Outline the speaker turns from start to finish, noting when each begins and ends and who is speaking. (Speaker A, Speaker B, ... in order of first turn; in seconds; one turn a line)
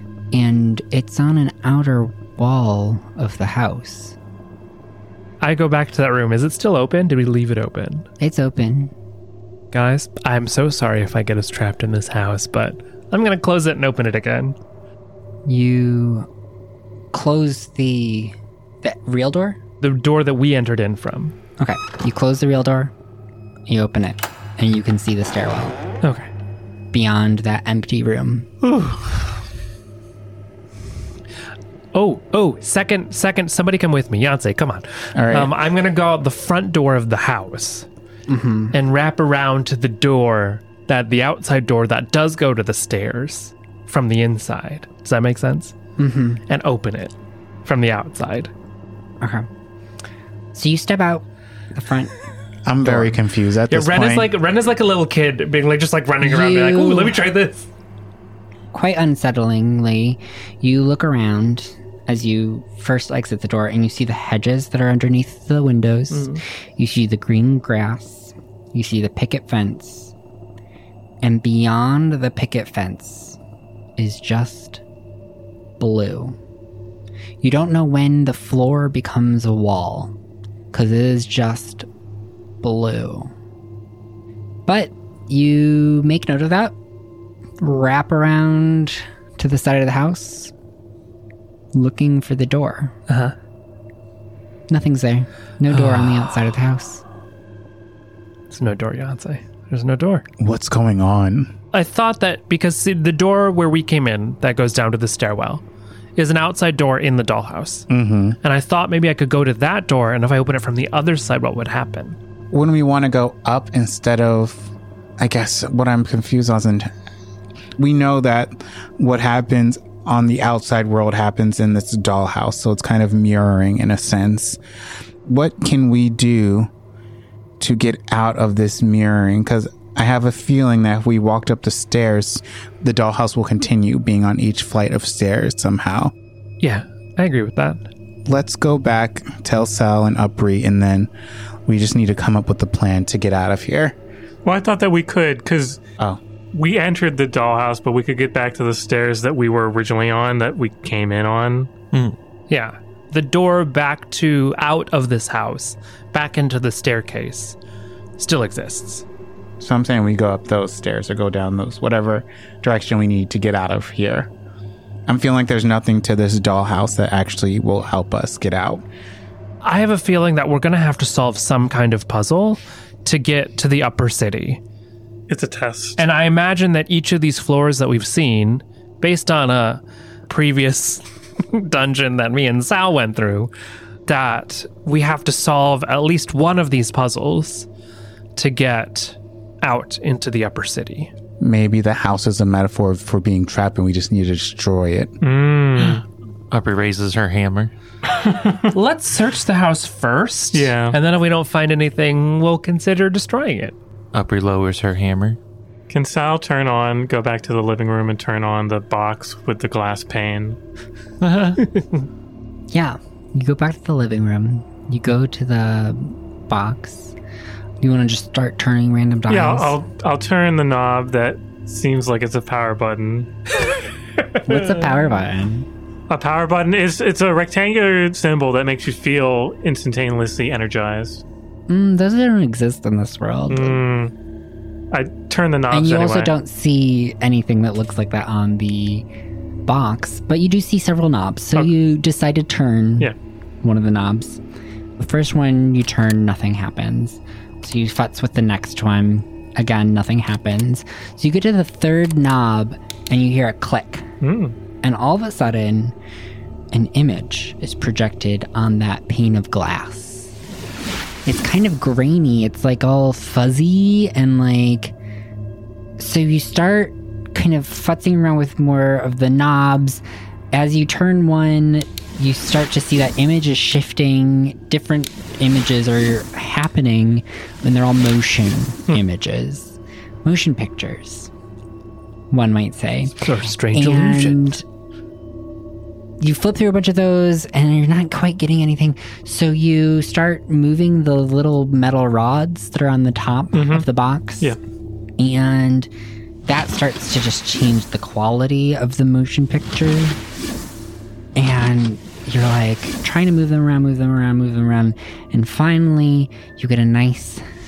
Speaker A: 0.3-4.2
Speaker B: 5.4-8.1
Speaker A: 8.2-8.9
Speaker B: 9.7-14.6
Speaker A: 15.5-16.3
Speaker A: 17.1-19.6
Speaker B: 19.8-21.4
Speaker A: 21.6-22.9
Speaker A: 23.7-25.8
Speaker B: 26.0-26.3
Speaker A: 26.9-28.5
Speaker B: 28.6-29.0
Speaker B: 31.9-37.9
Speaker C: 35.1-35.5
Speaker A: 38.3-38.8
Speaker B: 38.7-45.8
Speaker A: 46.0-46.4
Speaker B: 46.5-47.1
Speaker B: 47.6-48.5
Speaker A: 49.2-49.5
Speaker A: 50.5-52.1
Speaker C: 52.7-54.3
Speaker A: 52.8-53.1
Speaker B: 53.7-57.7
Speaker A: 56.2-57.2
Speaker A: 58.7-70.1
Speaker B: 66.1-66.4
Speaker A: 71.2-73.4
Speaker A: 74.0-74.8
Speaker A: 75.8-76.4
Speaker A: 77.4-80.1
Speaker A: 80.7-81.9
Speaker A: 82.6-83.3
Speaker A: 84.7-86.7
Speaker A: 87.6-90.5
Speaker A: 91.7-93.0
Speaker B: 93.1-93.3
Speaker A: 94.7-97.0
Speaker B: 95.7-96.3
Speaker B: 98.5-100.2
Speaker C: 100.4-101.5
Speaker B: 101.7-105.6
Speaker B: 106.2-107.9
Speaker C: 107.9-108.4
Speaker B: 108.4-112.2
Speaker C: 112.5-116.9
Speaker C: 117.8-124.6
Speaker C: 125.2-126.7
Speaker C: 127.6-136.1
Speaker B: 136.6-137.9
Speaker C: 138.3-141.1
Speaker C: 141.7-144.0
Speaker D: 144.4-145.8
Speaker D: 146.5-151.7
Speaker B: 152.5-157.6
Speaker B: 158.2-159.0
Speaker C: 159.6-164.3
Speaker C: 165.1-168.8
Speaker B: 169.6-174.6
Speaker D: 175.3-176.0
Speaker B: 176.0-183.5
Speaker B: 184.1-187.7
Speaker B: 188.4-191.1
Speaker C: 191.4-195.2
Speaker D: 195.2-196.0
Speaker E: 196.5-197.7
Speaker D: 198.2-198.6
Speaker B: 198.7-203.8
Speaker D: 200.5-201.0
Speaker E: 204.1-205.4
Speaker D: 205.9-210.6
Speaker E: 211.2-211.6
Speaker B: 211.6-212.0
Speaker A: 212.7-217.2
Speaker A: 217.8-219.8
Speaker D: 219.3-223.3
Speaker A: 224.4-225.7
Speaker D: 226.1-231.2
Speaker A: 231.7-233.8
Speaker D: 233.5-234.1
Speaker D: 234.9-236.3
Speaker A: 235.7-239.1
Speaker A: 239.7-244.4
Speaker A: 245.0-254.1
Speaker D: 254.2-254.6
Speaker A: 254.8-255.9
Speaker A: 256.7-260.4
Speaker A: 261.2-264.9
Speaker A: 266.0-281.3
Speaker A: 282.3-284.6
Speaker B: 283.2-284.5
Speaker A: 286.2-294.6
Speaker D: 293.5-293.9
Speaker A: 295.2-295.9
Speaker A: 296.5-300.2
Speaker A: 301.4-307.4